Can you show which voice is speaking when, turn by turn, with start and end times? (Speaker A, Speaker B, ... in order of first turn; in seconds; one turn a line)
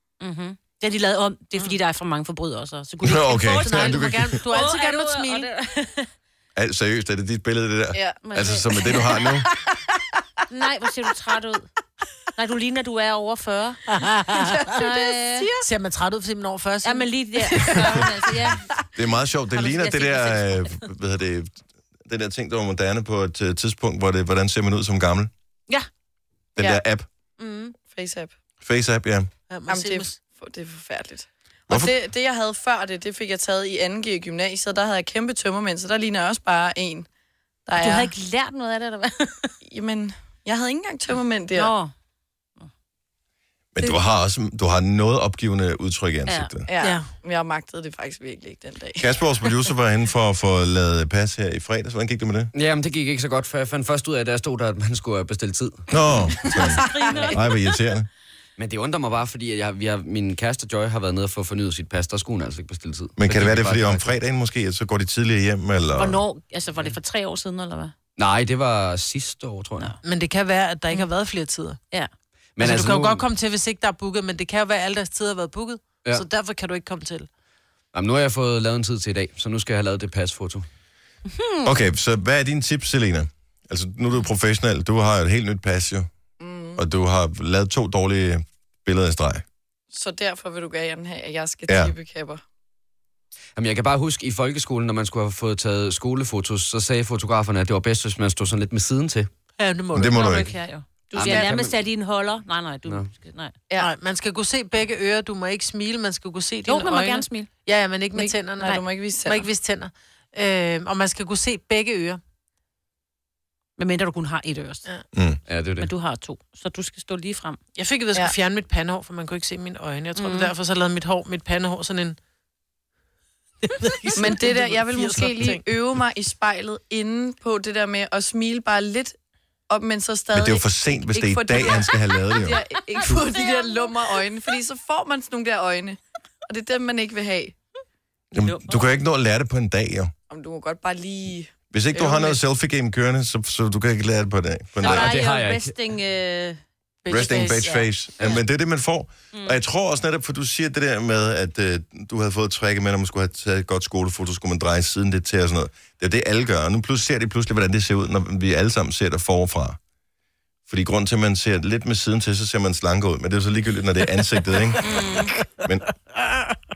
Speaker A: 0.2-6.1
Speaker B: 3.0-4.4
Speaker C: 3.6-5.5
Speaker B: 6.5-9.5
Speaker D: 7.9-8.2
Speaker A: 8.2-9.3
Speaker D: 8.9-10.0
Speaker A: 10.5-11.7
Speaker A: 12.3-13.8
Speaker C: 13.9-14.7
Speaker D: 14.3-15.6
Speaker A: 14.7-15.5
Speaker C: 15.6-17.7
Speaker A: 16.8-18.6
Speaker D: 17.6-18.1
Speaker B: 18.9-25.3
Speaker A: 19.5-20.8
Speaker B: 26.6-27.1
Speaker A: 27.4-27.7
Speaker D: 27.9-28.3
Speaker B: 28.6-29.3
Speaker C: 29.5-30.2
Speaker D: 29.7-37.1
Speaker B: 31.7-31.9
Speaker D: 37.7-38.1
Speaker A: 37.8-39.5
Speaker D: 39.6-41.7
Speaker A: 41.5-41.9
Speaker B: 43.7-46.6
Speaker D: 46.7-49.1
Speaker C: 46.8-47.1
Speaker B: 49.0-52.5
Speaker E: 52.5-55.9
Speaker B: 55.9-58.1
Speaker A: 56.6-57.4
Speaker D: 56.9-57.3
Speaker E: 58.6-64.1
Speaker B: 63.2-66.2
Speaker A: 66.0-67.9
Speaker E: 68.2-69.9
Speaker C: 70.0-71.8
Speaker E: 72.6-73.2
Speaker C: 72.6-77.3
Speaker E: 77.9-80.7
Speaker A: 81.3-81.7
Speaker B: 81.6-86.1
Speaker D: 86.4-86.8
Speaker B: 86.8-89.4
Speaker D: 89.9-92.4
Speaker B: 91.7-91.9
Speaker E: 93.6-99.3
Speaker C: 99.6-100.5
Speaker B: 99.9-100.5
Speaker A: 100.1-103.5
Speaker D: 101.1-101.6
Speaker E: 101.1-101.7
Speaker C: 103.8-112.2
Speaker A: 106.7-107.5
Speaker D: 108.1-109.5
Speaker A: 113.8-114.8
Speaker B: 115.1-115.4
Speaker E: 115.5-115.9
Speaker A: 115.8-117.6
Speaker C: 117.7-122.2
Speaker A: 120.2-120.5
Speaker C: 123.6-125.6
Speaker D: 124.1-129.2
Speaker D: 129.7-137.5
Speaker B: 130.3-132.6
Speaker A: 133.2-133.6
Speaker B: 138.3-140.1
Speaker A: 138.4-138.8
Speaker D: 140.3-141.5
Speaker B: 141.7-145.1
Speaker A: 144.8-146.6
Speaker E: 144.8-145.7
Speaker C: 147.0-147.8
Speaker B: 147.1-159.8
Speaker A: 147.2-147.6
Speaker A: 149.3-149.6
Speaker B: 160.7-164.8
Speaker A: 164.8-165.4